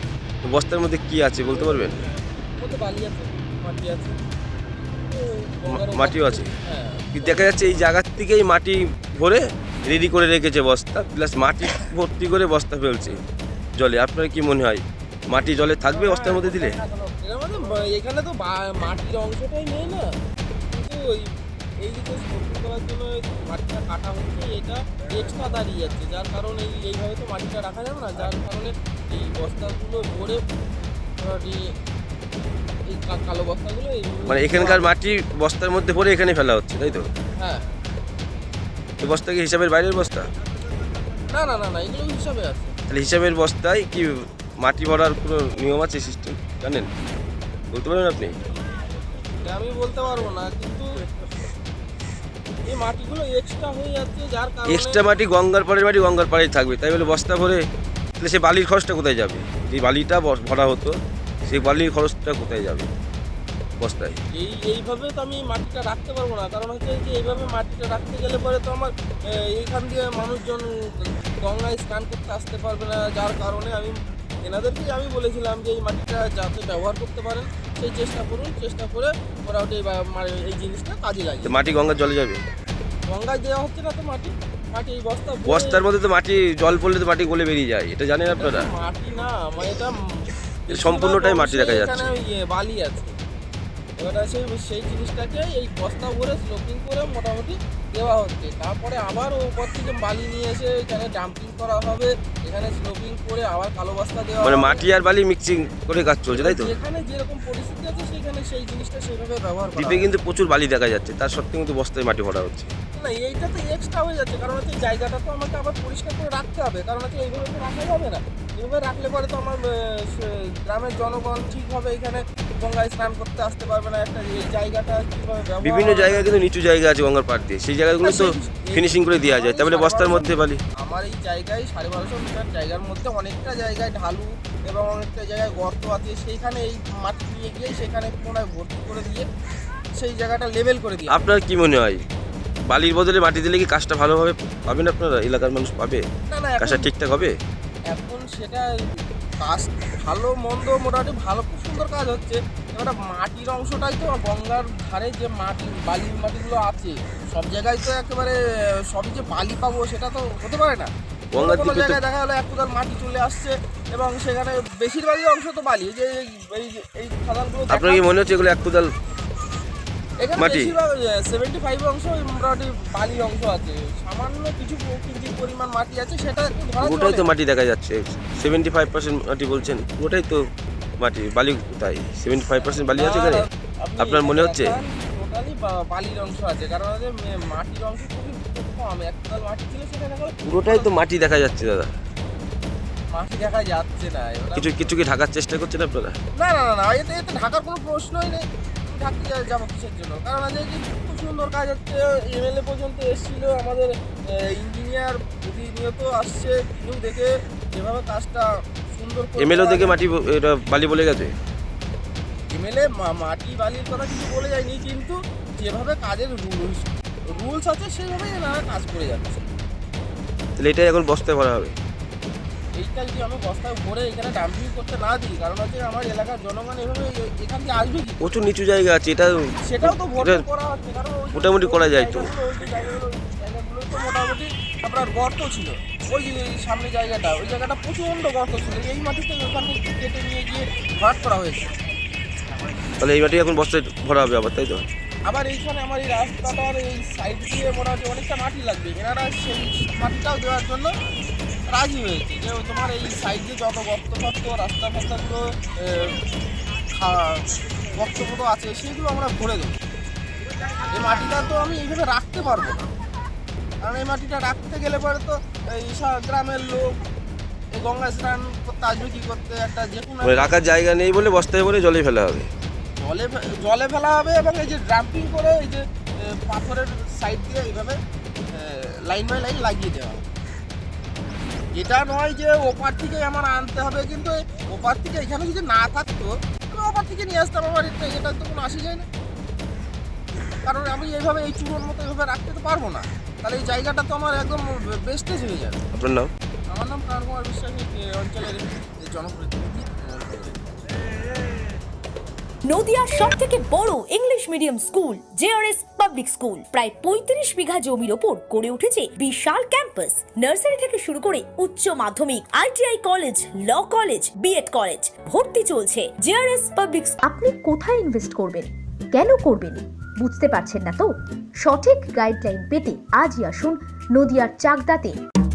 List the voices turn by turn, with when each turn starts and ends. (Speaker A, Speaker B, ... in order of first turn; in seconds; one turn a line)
Speaker A: 0.5-2.0
Speaker B: 2.6-4.2
Speaker B: 5.1-7.4
Speaker A: 5.7-6.5
Speaker A: 7.1-13.2
Speaker A: 13.8-16.8
Speaker B: 16.4-20.0
Speaker B: 20.7-21.3
Speaker B: 21.8-30.4
Speaker B: 31.2-31.6
Speaker B: 32.9-34.8
Speaker A: 34.3-37.0
Speaker A: 39.0-40.3
Speaker B: 41.3-42.7
Speaker A: 42.9-44.1
Speaker A: 44.6-46.9
Speaker A: 47.7-48.3
Speaker B: 49.4-50.9
Speaker B: 52.7-55.0
Speaker A: 54.7-57.6
Speaker A: 58.2-60.9
Speaker A: 61.5-62.9
Speaker A: 63.8-64.2
Speaker B: 64.4-68.9
Speaker B: 69.5-70.7
Speaker B: 71.4-81.5
Speaker A: 81.4-82.4
Speaker B: 83.1-85.7
Speaker A: 85.5-88.7
Speaker B: 88.3-89.9
Speaker A: 90.7-92.1
Speaker B: 90.7-93.1
Speaker B: 94.0-104.8
Speaker A: 104.4-106.7
Speaker B: 106.3-109.9
Speaker A: 109.8-112.7
Speaker B: 113.0-126.3
Speaker A: 125.6-130.6
Speaker B: 128.0-128.7
Speaker B: 129.4-130.3
Speaker B: 130.8-139.2
Speaker B: 140.0-141.1
Speaker A: 141.1-142.0
Speaker A: 142.7-146.0
Speaker B: 146.3-146.8
Speaker A: 146.6-147.3
Speaker B: 147.9-148.7
Speaker B: 149.4-158.3
Speaker B: 158.9-160.9
Speaker A: 161.4-162.0
Speaker B: 161.4-168.0
Speaker A: 167.7-168.9
Speaker B: 170.2-177.2
Speaker A: 170.4-170.7
Speaker A: 176.8-180.4
Speaker A: 181.0-183.4
Speaker B: 182.9-190.8
Speaker A: 184.0-184.8
Speaker A: 190.4-191.9
Speaker B: 193.1-194.8
Speaker A: 194.6-196.2
Speaker B: 196.4-203.9
Speaker B: 204.5-209.9
Speaker A: 209.4-211.3
Speaker B: 212.5-219.4
Speaker A: 220.6-221.7
Speaker B: 222.8-228.2
Speaker A: 228.2-230.4
Speaker B: 229.7-241.6
Speaker A: 231.3-232.3
Speaker A: 243.0-244.8
Speaker B: 245.3-250.8
Speaker B: 251.7-255.4
Speaker B: 258.0-259.7
Speaker B: 260.9-262.8
Speaker B: 263.8-266.9
Speaker B: 267.8-270.3
Speaker A: 270.3-272.5
Speaker B: 273.0-275.8
Speaker B: 276.4-277.9
Speaker B: 278.5-280.2
Speaker B: 281.8-289.0
Speaker B: 290.7-295.7
Speaker A: 295.9-296.3
Speaker B: 296.7-300.5
Speaker C: 302.6-317.1
Speaker D: 317.2-325.2